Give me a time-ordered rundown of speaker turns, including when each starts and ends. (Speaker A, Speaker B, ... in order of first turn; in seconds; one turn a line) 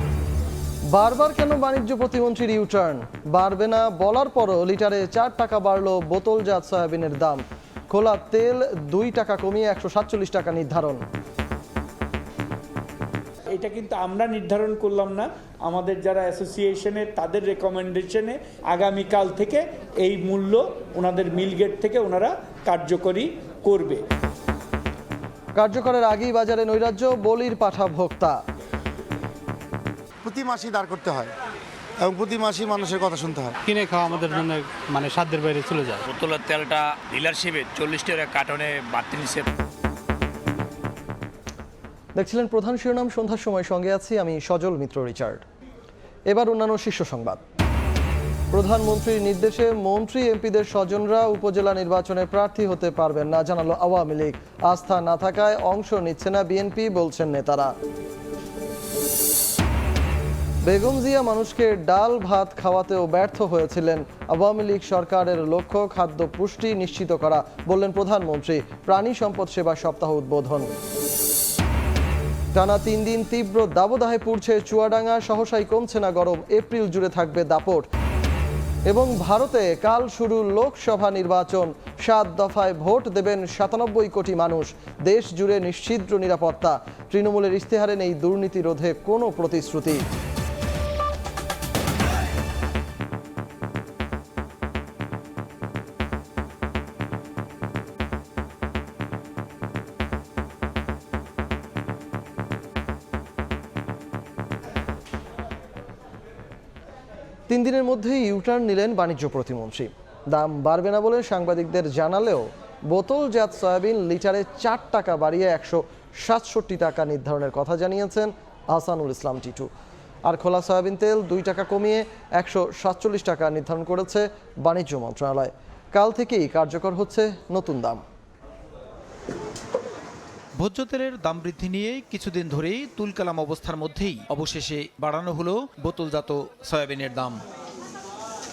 Speaker A: 0.9-11.0
Speaker B: 13.5-24.0
Speaker A: 25.6-28.4
Speaker C: 30.2-31.3
Speaker C: 32.0-33.5
Speaker D: 33.6-36.0
Speaker E: 36.2-39.1
Speaker A: 42.1-45.4
Speaker A: 46.3-47.4
Speaker A: 48.5-57.7
Speaker A: 60.6-70.7
Speaker A: 72.5-77.8
Speaker A: 78.9-90.0
Speaker A: 107.5-119.7
Speaker A: 120.2-128.0
Speaker F: 130.6-137.3